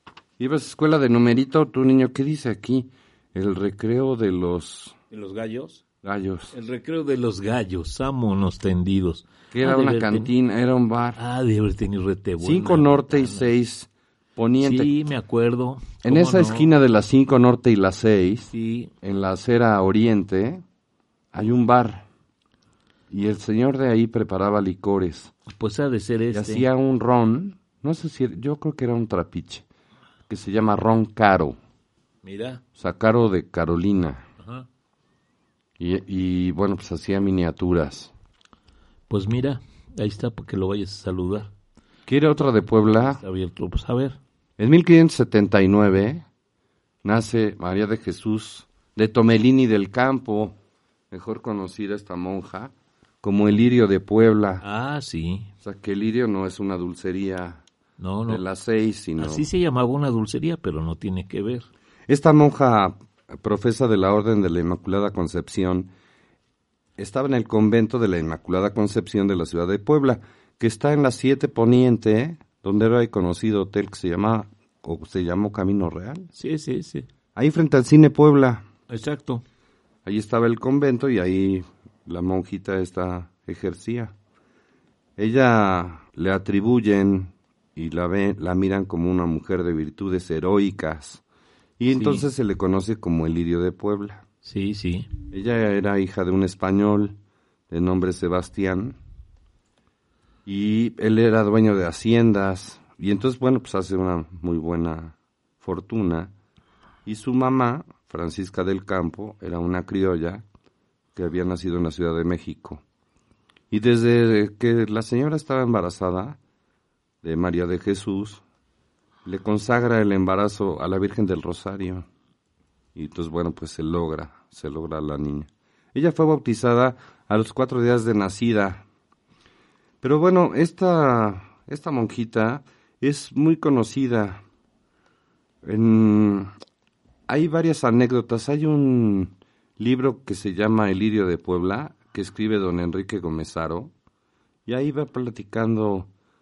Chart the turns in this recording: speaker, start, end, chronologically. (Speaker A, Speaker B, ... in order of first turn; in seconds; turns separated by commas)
Speaker A: 0.4-5.0, Speaker B: 5.1-5.8, Speaker A: 6.0-6.5, Speaker B: 6.5-10.3, Speaker A: 9.5-11.2, Speaker B: 11.2-13.5, Speaker A: 12.4-14.9, Speaker B: 14.6-16.7, Speaker A: 16.0-18.5, Speaker B: 18.5-18.9, Speaker A: 19.0-20.6, Speaker A: 21.3-22.1, Speaker A: 23.1-25.3, Speaker B: 25.5-26.6, Speaker A: 26.3-29.6, Speaker A: 30.3-31.6, Speaker B: 32.2-32.6, Speaker A: 32.8-34.3, Speaker B: 34.4-34.7, Speaker A: 35.8-38.1, Speaker B: 39.1-41.5, Speaker A: 42.1-43.2, Speaker B: 43.1-44.2, Speaker A: 44.6-46.3, Speaker A: 47.0-50.6, Speaker A: 51.1-54.6, Speaker B: 54.6-55.5, Speaker A: 55.6-57.6, Speaker B: 58.0-58.4, Speaker A: 58.3-59.5, Speaker B: 59.2-61.7, Speaker A: 62.1-65.9, Speaker A: 67.0-76.3, Speaker B: 76.3-77.1, Speaker A: 77.3-78.7, Speaker B: 78.9-79.4, Speaker A: 80.0-84.1, Speaker A: 85.2-91.2, Speaker A: 91.8-94.3, Speaker B: 91.9-92.2, Speaker B: 94.4-95.1, Speaker A: 95.3-97.2, Speaker A: 97.7-99.0, Speaker A: 100.5-106.3, Speaker A: 107.0-110.4, Speaker A: 111.2-112.8, Speaker A: 113.7-116.4, Speaker A: 117.2-118.4, Speaker A: 119.2-122.1, Speaker A: 123.0-128.8, Speaker A: 130.0-134.4, Speaker A: 135.6-136.5, Speaker A: 137.3-143.9, Speaker A: 144.7-146.1